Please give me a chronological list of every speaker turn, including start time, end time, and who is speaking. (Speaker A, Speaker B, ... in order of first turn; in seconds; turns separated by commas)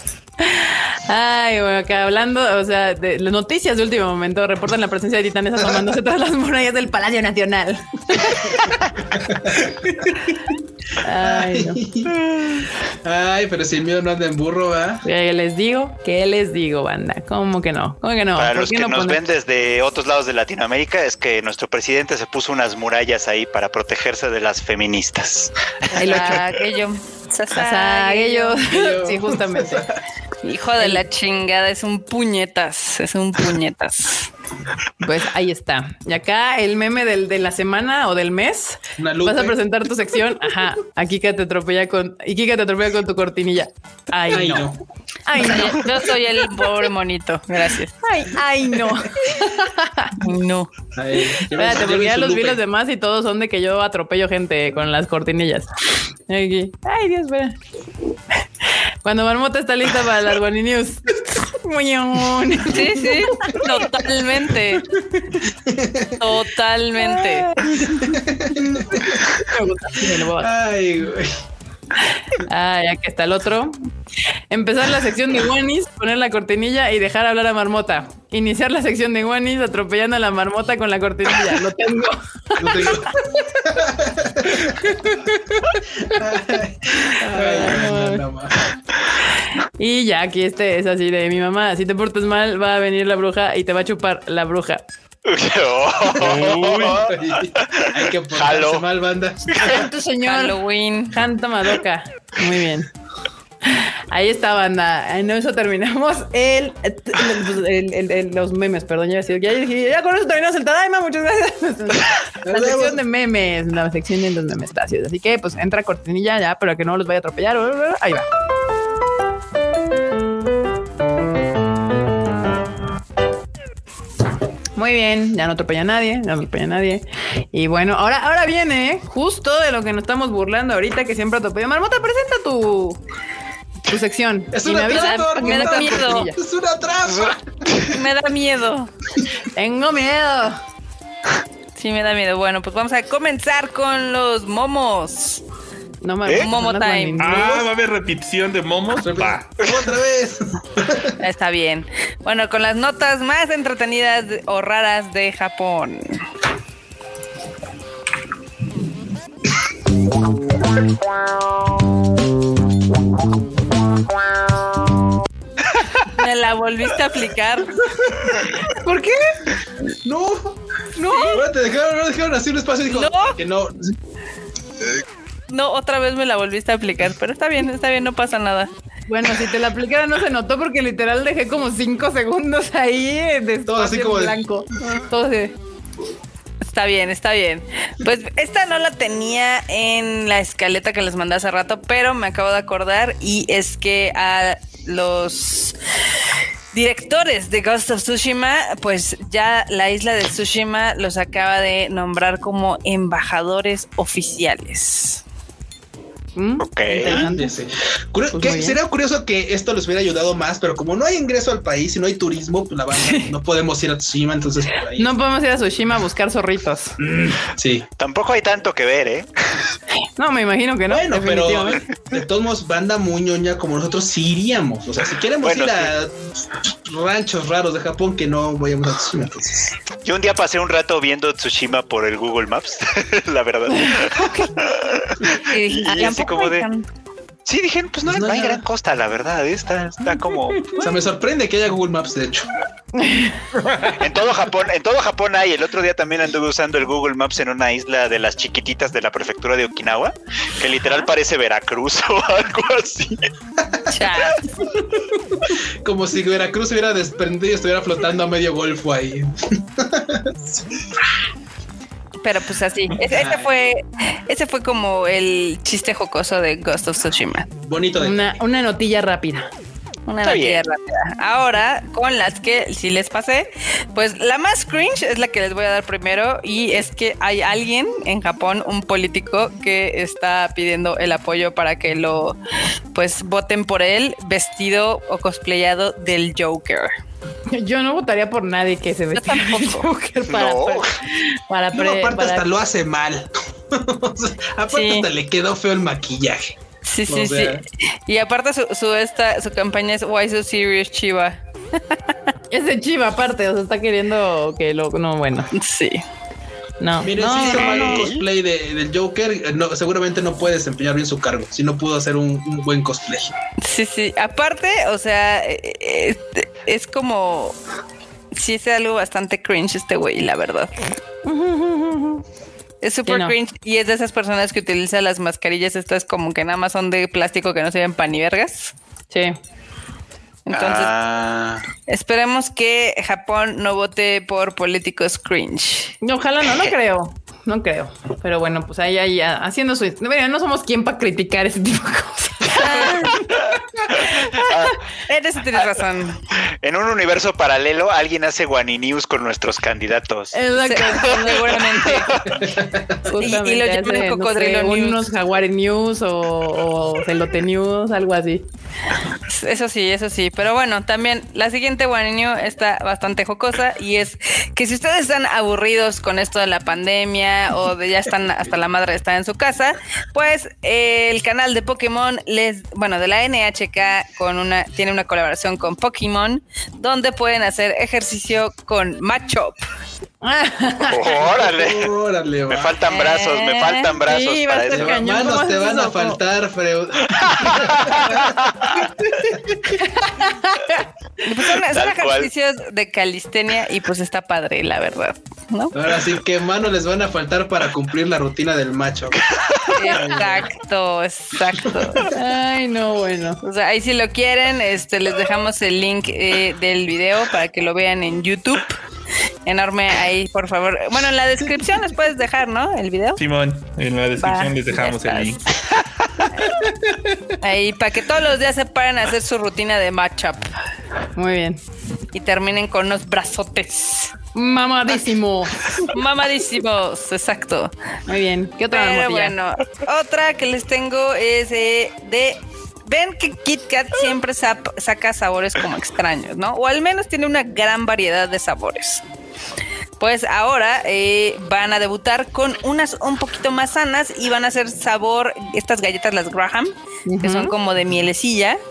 Speaker A: 0.4-8.8, Speaker B: 9.2-10.3, Speaker A: 11.0-11.8, Speaker B: 11.2-15.1, Speaker A: 15.0-19.2, Speaker C: 18.4-26.6, Speaker D: 25.9-28.7, Speaker A: 26.0-26.5, Speaker A: 27.5-29.9, Speaker B: 28.7-30.0, Speaker D: 30.4-34.3, Speaker A: 35.0-44.7, Speaker B: 39.0-39.6, Speaker B: 44.3-44.8, Speaker A: 45.3-46.0, Speaker D: 45.4-47.9, Speaker A: 48.0-50.2, Speaker D: 50.2-50.7, Speaker B: 51.0-52.6, Speaker A: 51.4-55.7, Speaker A: 56.3-57.6, Speaker A: 59.0-63.9, Speaker D: 62.7-64.9, Speaker B: 65.0-66.2, Speaker D: 66.2-67.6, Speaker A: 67.0-70.5, Speaker B: 67.9-69.3, Speaker B: 70.0-71.3, Speaker A: 72.4-73.8, Speaker A: 74.5-83.6, Speaker B: 82.6-85.2, Speaker A: 84.7-86.2, Speaker B: 86.0-88.6, Speaker A: 87.2-88.2, Speaker A: 89.6-94.8, Speaker C: 95.2-98.8, Speaker B: 96.1-99.7, Speaker E: 96.2-97.0, Speaker C: 99.5-99.8, Speaker A: 99.6-100.6, Speaker D: 100.2-101.2, Speaker A: 101.1-102.9, Speaker A: 103.7-118.3, Speaker B: 112.5-113.0, Speaker A: 124.8-133.0, Speaker A: 133.9-136.3, Speaker B: 134.5-137.8, Speaker D: 134.9-136.3, Speaker D: 137.8-138.9, Speaker A: 139.5-140.6, Speaker D: 141.8-145.4, Speaker A: 146.0-147.7, Speaker D: 146.4-147.5, Speaker E: 147.2-149.4, Speaker B: 148.9-151.1, Speaker D: 151.2-156.2, Speaker D: 166.0-167.9, Speaker A: 168.6-169.4, Speaker B: 170.0-170.6, Speaker A: 171.0-171.4, Speaker D: 171.1-171.4, Speaker B: 171.2-174.0, Speaker D: 172.9-173.4, Speaker D: 175.5-178.7, Speaker A: 179.1-185.5, Speaker B: 183.7-184.4, Speaker D: 186.6-195.8, Speaker D: 196.7-205.2, Speaker A: 206.4-207.5, Speaker C: 206.6-207.3, Speaker B: 207.0-215.1, Speaker A: 208.3-208.8, Speaker A: 213.0-213.3, Speaker A: 215.0-217.0, Speaker B: 217.0-217.9, Speaker C: 218.0-219.7, Speaker A: 220.2-221.8, Speaker B: 220.9-226.1, Speaker C: 225.4-225.9, Speaker B: 226.7-229.7, Speaker C: 230.0-236.7, Speaker A: 233.7-234.5, Speaker D: 235.4-236.9, Speaker C: 237.5-240.7, Speaker B: 238.1-238.6, Speaker B: 240.7-242.5, Speaker A: 242.9-243.5, Speaker C: 243.9-253.3, Speaker D: 253.9-254.6, Speaker B: 255.8-260.6, Speaker D: 262.2-267.5, Speaker B: 263.1-263.5, Speaker B: 267.6-268.4, Speaker A: 268.0-269.5, Speaker D: 270.1-282.4, Speaker C: 270.2-270.6, Speaker D: 282.9-286.9, Speaker A: 287.5-292.5, Speaker D: 289.1-289.9, Speaker C: 290.2-290.9, Speaker B: 291.7-296.6, Speaker D: 294.7-295.1, Speaker D: 296.8-301.4, Speaker B: 297.1-297.6, Speaker A: 302.5-305.5, Speaker D: 305.5-306.0, Speaker A: 306.8-308.0, Speaker B: 307.0-313.3, Speaker C: 307.3-308.3, Speaker D: 313.6-317.6, Speaker D: 318.3-320.7, Speaker A: 321.2-322.2, Speaker D: 322.8-328.7, Speaker A: 323.1-323.4, Speaker A: 329.1-329.4, Speaker D: 330.5-330.9, Speaker C: 330.5-331.6, Speaker D: 331.9-335.9, Speaker A: 336.0-343.3, Speaker D: 342.5-343.2, Speaker C: 343.3-344.8, Speaker A: 344.1-344.4, Speaker D: 344.9-346.2, Speaker C: 346.6-352.2, Speaker A: 350.3-351.7, Speaker D: 350.6-352.4, Speaker B: 352.4-353.0, Speaker A: 353.1-358.4, Speaker D: 353.2-355.1, Speaker D: 359.3-379.6, Speaker A: 380.2-381.3, Speaker C: 380.9-381.9, Speaker B: 381.3-382.7, Speaker C: 382.5-385.0, Speaker D: 382.9-383.9, Speaker A: 384.1-386.2, Speaker B: 384.7-388.3, Speaker C: 387.2-388.9, Speaker B: 389.3-389.6, Speaker A: 389.8-390.9, Speaker D: 391.2-395.8, Speaker C: 391.7-392.3, Speaker B: 395.7-399.2, Speaker C: 399.3-399.9, Speaker D: 399.7-402.1, Speaker B: 399.9-400.4, Speaker A: 402.1-403.4, Speaker D: 403.4-408.8, Speaker D: 409.5-413.2, Speaker E: 413.2-415.6, Speaker D: 414.2-415.7, Speaker D: 416.2-416.8, Speaker D: 417.4-420.5, Speaker A: 421.2-421.6, Speaker D: 422.1-424.1, Speaker A: 424.3-425.9, Speaker D: 425.9-427.7, Speaker A: 428.1-429.3, Speaker D: 428.7-439.0, Speaker D: 440.0-448.6, Speaker A: 447.1-447.5